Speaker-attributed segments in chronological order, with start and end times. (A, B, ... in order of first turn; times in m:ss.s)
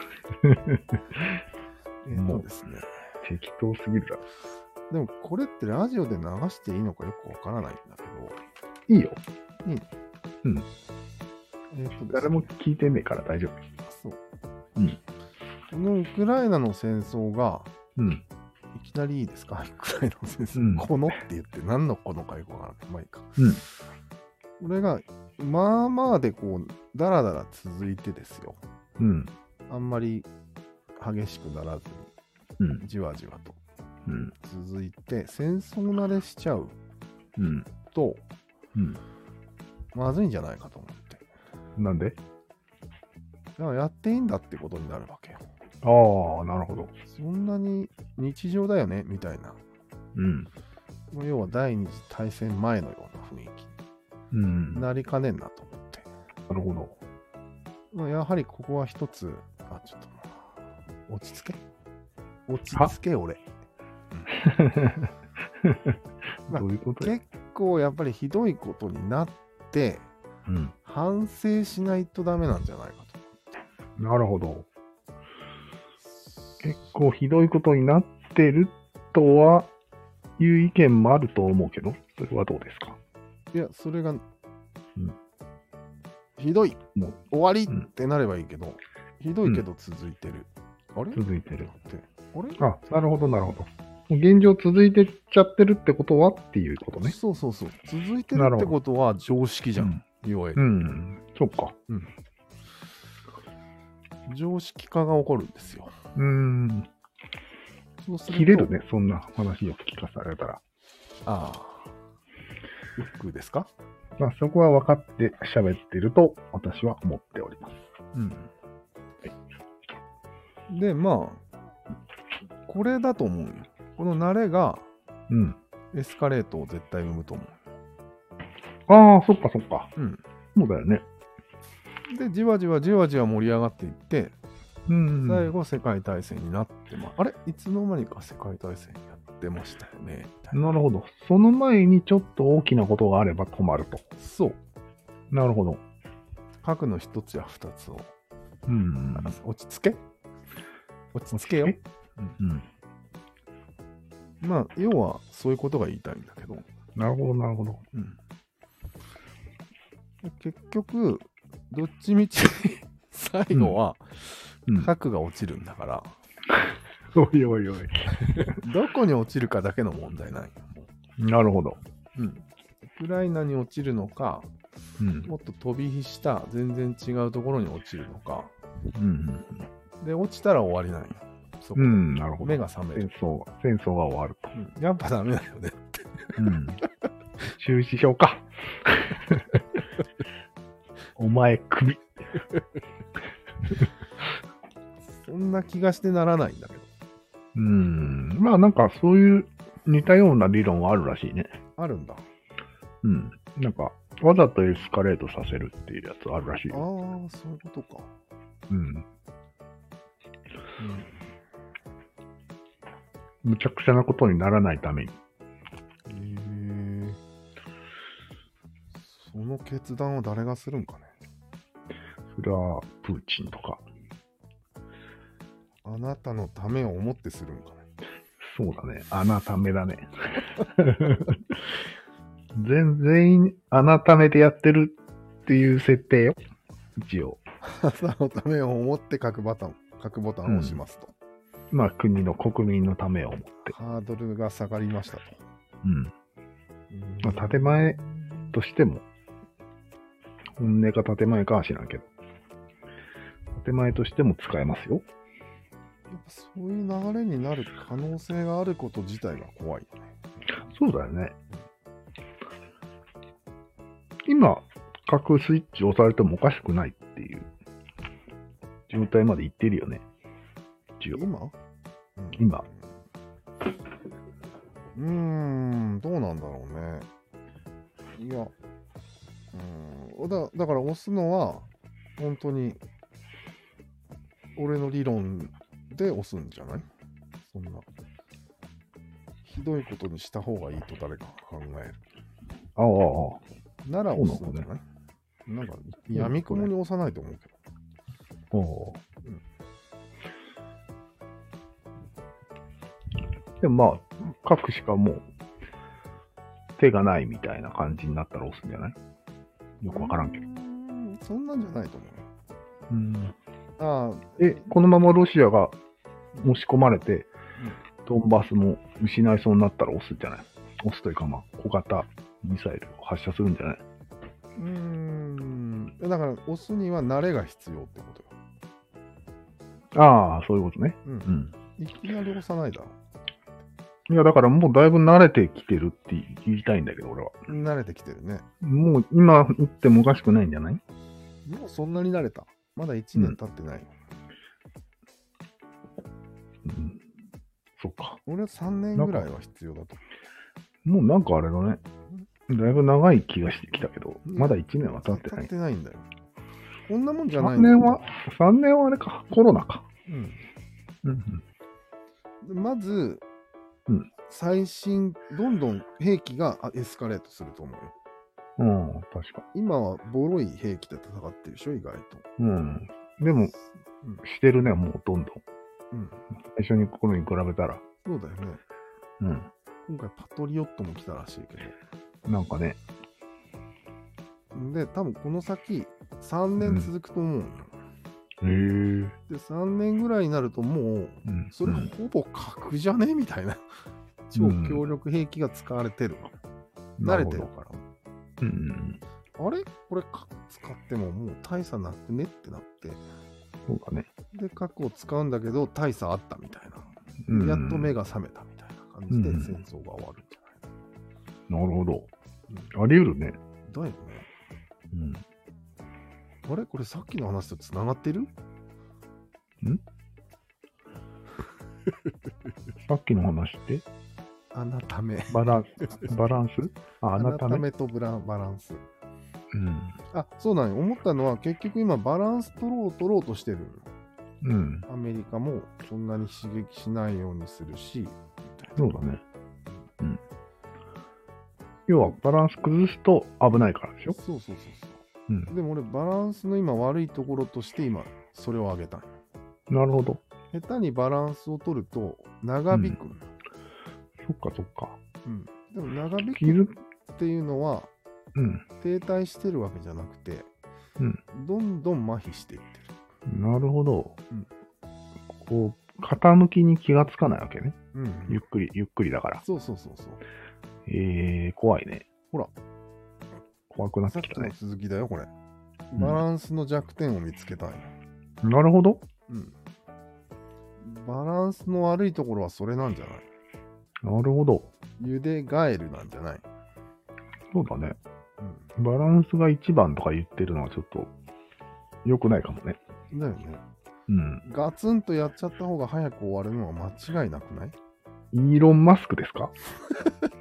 0:00.4-0:01.2 A
0:02.0-0:02.9 B
0:02.1-0:02.4 A
0:03.2-0:04.2 A
0:04.9-0:08.4 B
0:08.9-0:09.2 A
0:11.7-0:12.5 B
0:12.1-0:13.5 A
0:13.8-0:14.2 B
0:15.7-0:17.7 B
0:18.0-0:18.2 A
0:18.7-0:23.7 B
0:20.6-0:21.1 A
0:24.6-0:28.6 B
0:29.0-0:29.3 A
0:29.7-0:30.3 B
0:31.0-0:32.1 B
0:32.6-0:32.8 A
0:32.8-0:33.6 B
0:34.1-0:34.3 A
0:34.4-0:36.8 B
0:37.4-0:37.7 A
0:37.9-0:38.2 B
0:38.7-0:39.0 A
0:39.9-0:41.2 B
0:41.8-0:42.2 A
0:43.6-0:45.4 B
0:45.8-0:46.9 A
0:47.0-0:49.6 B
0:50.1-0:50.5 A
0:51.1-0:53.7 B
0:54.3-0:54.8 A
0:54.7-0:56.1 B
0:56.5-0:57.0 A
0:57.9-1:00.4 B
1:01.1-1:01.6 B
1:02.5-1:03.4 B
1:04.4-1:05.1 A
1:05.6-1:07.1 A
1:06.5-1:10.1 B
1:10.5-1:10.7 A
1:10.8-1:13.2 B
1:14.0-1:14.7 A
1:16.2-1:16.7 B
1:16.6-1:19.7 A
1:20.4-1:23.0 A
1:23.5-1:24.2 B
1:26.4-1:32.6 B
1:31.1-1:31.7 A
1:32.6-1:37.2 A
1:37.0-1:40.6 B
1:38.3-1:38.7 A
1:40.6-1:41.7 A
1:44.3-1:45.9 B
1:46.2-1:46.9 A
1:48.0-1:48.7 B
1:48.3-1:50.6 A
1:51.2-1:51.9 B
1:53.0-1:53.7 B
1:54.2-1:57.8 A
1:58.1-1:58.5 B
2:00.7-2:01.4 B
2:02.7-2:04.9 B
2:05.3-2:05.6 A
2:05.9-2:07.6 B
2:08.9-2:09.9 A
2:10.0-2:10.2 B
2:10.5-2:11.0 A
2:12.1-2:14.4 B
2:14.9-2:15.5 A
2:15.2-2:20.7 B
2:20.5-2:24.0 A
2:24.2-2:24.6 B
2:25.3-2:25.8 A
2:26.6-2:28.1 B
2:28.7-2:29.3 A
2:29.1-2:30.0 B
2:31.1-2:32.4 B
2:31.3-2:31.8 A
2:32.4-2:32.6 A
2:34.4-2:36.6 B
2:37.0-2:37.8 A
2:37.9-2:38.2 B
2:40.2-2:46.1 B
2:43.5-2:43.8 A
2:46.5-2:48.6 A
2:48.5-2:50.8 B
2:51.2-2:51.8 A
2:52.1-2:54.5 B
2:55.0-2:55.3 A
2:55.2-2:58.5 B
2:58.9-2:59.7 A
3:00.0-3:03.1 B
3:01.8-3:04.5 A
3:04.5-3:06.4 B
3:06.4-3:06.8 A
3:07.5-3:09.4 A
3:11.2-3:12.1 A
3:15.2-3:16.9 B
3:17.5-3:21.5 A
3:21.8-3:22.2 B
3:23.0-3:26.8 A
3:26.7-3:28.1 B
3:28.7-3:29.0 A
3:30.8-3:31.2 B
3:33.4-3:35.1 A
3:36.0-3:37.2 B
3:39.0-3:41.1 B
3:42.3-3:43.8 A
3:45.8-3:47.8 B
3:48.4-3:51.6 A
3:52.6-3:56.4 A
3:57.0-3:57.4 A
3:57.6-4:01.1 B
4:00.4-4:00.8 A
4:01.7-4:03.7 A
4:03.7-4:05.4 B
4:05.8-4:06.1 A
4:06.9-4:08.6 B
4:07.2-4:08.0 A
4:08.5-4:09.0 A
4:10.6-4:12.1 A
4:13.5-4:15.0 A
4:16.1-4:20.0 B
4:20.7-4:21.4 A
4:24.2-4:27.5 A
4:28.9-4:30.0 A
4:31.0-4:31.2 A
4:31.1-4:31.5 B
4:32.2-4:32.9 B
4:32.4-4:32.6 A
4:34.9-4:37.1 B
4:38.2-4:38.5 B
4:39.5-4:42.8 B
4:44.6-4:46.8 B
4:47.5-4:47.8 B
4:49.4-4:52.0 B
4:52.8-4:53.4 A
4:53.8-4:54.8 B
4:54.1-4:54.7 A
4:55.5-4:57.5 B
4:56.1-4:56.7 A
4:58.5-4:59.0 A
5:03.6-5:05.2 A
5:06.8-5:09.0 A
5:09.8-5:10.4 A
5:09.9-5:12.2 B
5:12.9-5:13.3 A
5:13.8-5:14.6 B
5:14.4-5:15.8 A
5:16.4-5:17.3 A
5:18.0-5:23.8 A
5:24.6-5:28.3 B
5:29.9-5:31.5 A
5:31.0-5:33.0 B
5:34.1-5:37.4 A
5:37.5-5:38.4 B
5:38.6-5:40.8 A
5:41.4-5:43.9 B
5:46.6-5:47.0 A
5:47.8-5:48.2 A
5:48.2-5:50.0 B
5:49.0-5:49.2 A
5:50.8-5:51.8 A
5:52.5-5:55.5 A
5:54.2-5:56.1 B
5:56.9-5:58.0 B
5:57.4-5:59.8 A
6:00.1-6:00.4 B
6:01.0-6:01.4 A
6:02.4-6:03.2 B
6:04.3-6:07.9 B
6:08.6-6:09.4 A
6:09.5-6:12.2 B
6:12.4-6:13.5 A
6:14.2-6:15.4 A
6:15.9-6:16.2 B
6:16.4-6:17.8 A
6:18.0-6:18.6 B
6:19.2-6:19.5 A
6:19.8-6:21.8 B
6:22.3-6:22.8 A
6:24.5-6:27.7 B
6:26.6-6:26.9 A
6:28.4-6:29.1 A
6:29.3-6:33.6 B
6:31.2-6:31.9 A
6:34.3-6:36.3 B
6:34.4-6:34.8 A
6:37.0-6:37.5 A
6:37.0-6:37.8 B
6:38.4-6:39.0 A
6:39.4-6:43.0 B
6:43.7-6:44.1 A
6:44.3-6:50.6 B
6:47.3-6:47.9 A
6:49.1-6:49.5 A
6:51.5-6:52.1 A
6:52.7-6:53.4 A
6:53.7-6:54.3 B
6:54.9-6:55.2 A
6:56.4-6:58.3 B
7:02.8-7:03.8 A
7:04.5-7:05.4 B
7:05.3-7:07.6 A
7:07.2-7:08.8 B
7:09.5-7:10.0 A
7:10.1-7:13.9 B
7:14.4-7:14.9 A
7:14.9-7:19.1 B
7:18.8-7:19.2 A
7:21.9-7:24.2 A
7:24.1-7:29.1 B
7:29.7-7:30.2 A
7:30.5-7:33.3 B
7:34.2-7:35.0 A
7:35.2-7:37.9 B
7:36.4-7:36.7 A
7:38.3-7:38.6 A
7:38.8-7:40.5 B
7:41.3-7:42.9 B
7:43.3-7:44.2 A
7:45.3-7:47.8 A
7:47.9-7:48.4 B
7:48.3-7:49.4 A
7:49.4-7:50.2 B
7:50.9-7:52.0 A
7:53.7-7:54.5 A
7:54.1-7:55.3 B
7:55.9-7:57.9 B
7:56.0-7:56.2 A
7:58.4-7:59.0 A
7:59.3-7:59.5 B
8:00.8-8:03.2 B
8:04.0-8:04.7 A
8:05.0-8:06.4 B
8:07.5-8:08.0 A
8:08.4-8:08.7 B
8:08.8-8:11.1 A
8:12.0-8:12.8 A
8:13.1-8:13.6 B
8:14.1-8:14.4 A
8:14.4-8:17.7 B
8:18.3-8:19.5 A